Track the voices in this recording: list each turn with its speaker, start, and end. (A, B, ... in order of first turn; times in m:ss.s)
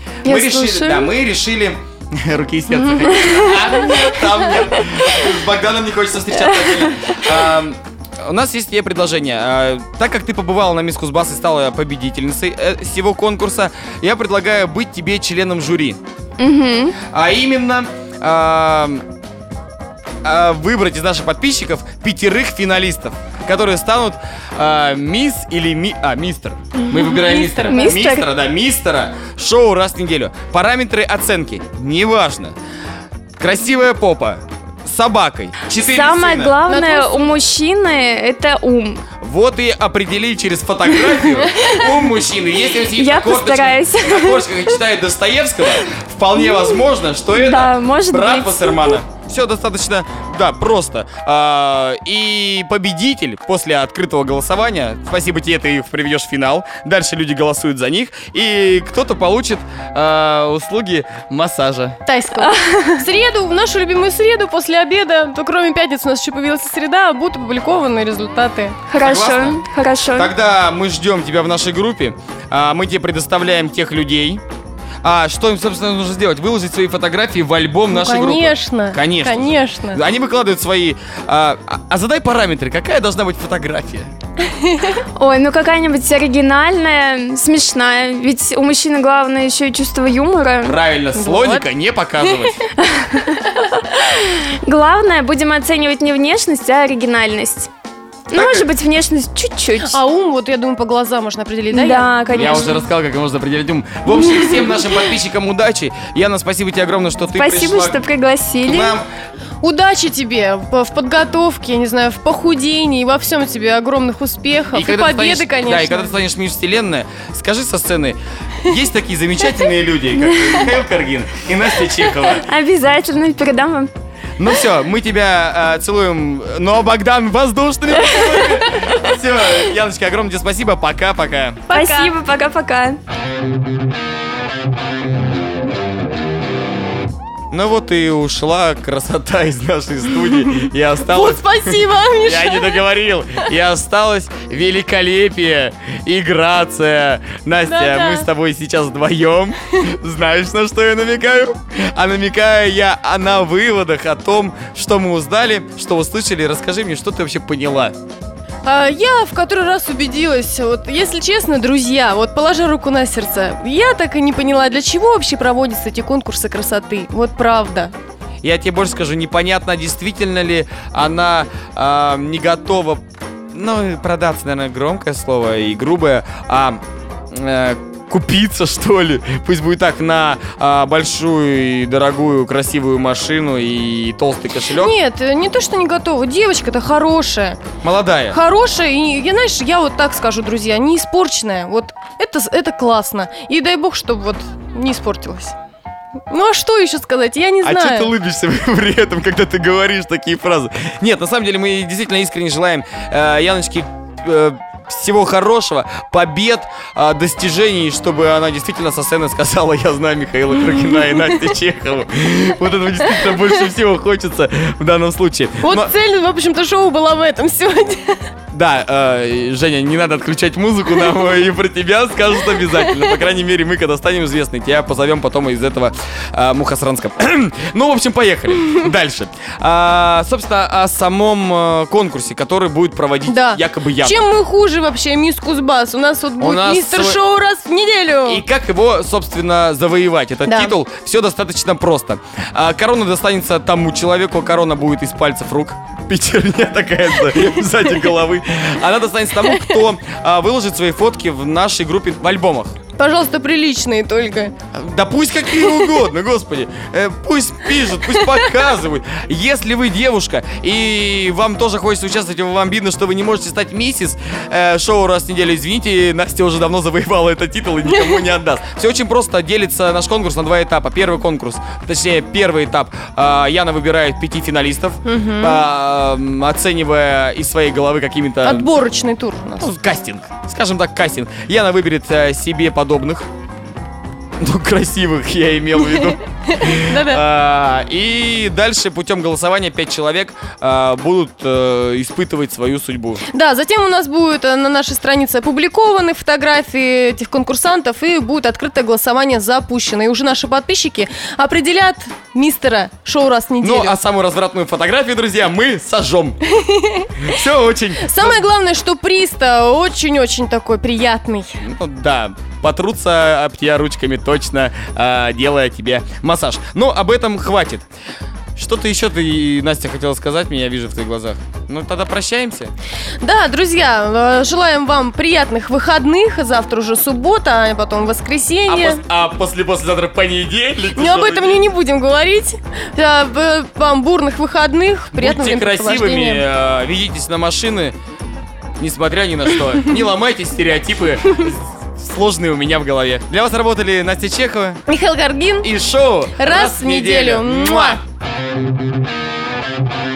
0:00.2-0:01.1 A
0:00.2-0:16.0 B
0:03.0-0:03.9 A
0:16.4-0:17.0 A
0:17.0-0:19.0 B
0:20.2-0:32.5 B
0:26.8-0:28.0 C
0:27.7-0:28.2 A
0:33.4-0:36.6 B
0:35.8-0:39.0 A
0:36.7-0:37.3 C
0:39.2-1:02.0 B
0:41.5-0:41.8 C
0:42.9-0:44.4 A
0:47.3-0:49.0 A
1:02.0-1:08.8 C
1:02.4-1:03.0 A
1:08.9-1:10.3 A
1:09.0-1:14.4 B
1:15.0-1:24.1 B
1:17.9-1:20.0 C
1:24.4-1:25.0 C
1:25.2-1:30.8 A
1:30.6-1:32.6 B
1:31.2-1:31.6 C
1:32.8-1:37.7 A
1:38.3-1:40.0 A
1:38.3-1:38.7 B
1:39.8-1:42.2 C
1:41.7-1:42.8 A
1:42.3-1:48.0 B
1:47.3-1:49.0 A
1:48.6-1:49.0 B
1:49.6-1:56.1 C
1:54.7-2:02.5 B
2:02.3-2:03.9 A
2:04.4-2:11.7 B
2:11.7-2:12.1 C
2:11.7-2:13.0 A
2:17.5-2:38.0 B
2:21.0-2:22.8 C
2:27.7-2:28.3 C
2:38.6-2:47.9 C
2:48.4-2:53.0 B
2:53.5-3:05.0 B
3:04.7-3:07.6 C
3:07.8-3:08.4 B
3:08.3-3:15.5 C
3:16.3-3:18.1 C
3:17.6-3:35.9 B
3:35.6-3:38.3 C
3:38.5-3:54.2 B
3:53.3-3:58.4 C
3:56.4-3:57.2 B
3:58.2-4:12.8 B
4:00.4-4:00.8 C
4:13.0-4:14.5 C
4:14.7-4:38.7 B
4:35.0-4:35.6 C
4:38.4-4:39.7 C
4:39.6-4:43.3 B
4:44.4-4:53.2 B
4:46.5-4:47.2 C
4:53.3-5:04.0 C
5:03.6-5:06.4 B
5:06.5-5:07.3 C
5:07.2-5:08.4 B
5:08.0-5:11.6 C
5:11.6-5:17.8 B
5:18.6-5:22.7 B
5:23.2-5:29.0 C
5:28.7-5:31.6 B
5:31.0-5:36.4 C
5:35.1-5:37.9 B
5:38.8-5:44.8 B
5:44.9-5:45.7 C
5:45.6-5:48.0 B
5:46.4-5:48.0 C